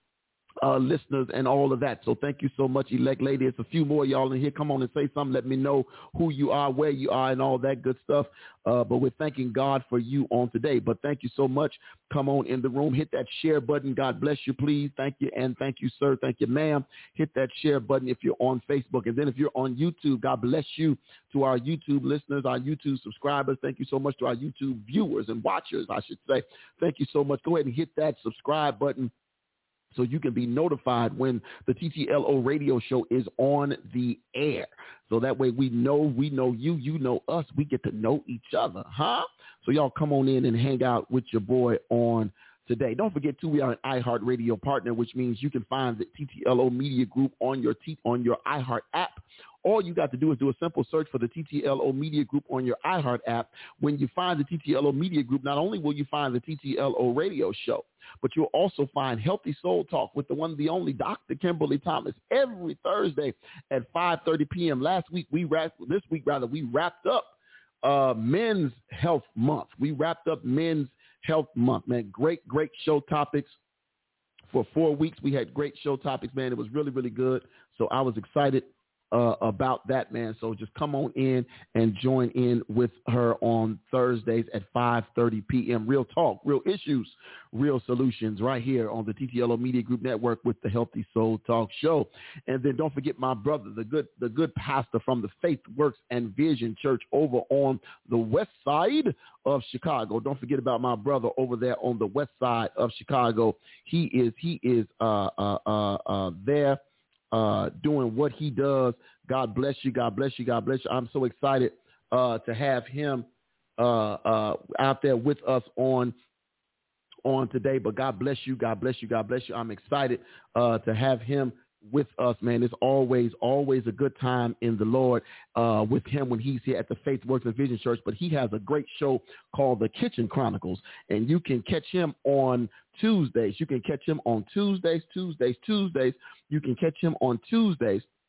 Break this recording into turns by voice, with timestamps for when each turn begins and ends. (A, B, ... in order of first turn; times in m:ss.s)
0:00.6-0:29.1 A
0:29.9-1:13.6 A
1:14.5-1:46.8 A
1:47.3-1:56.1 A
1:57.2-2:18.1 A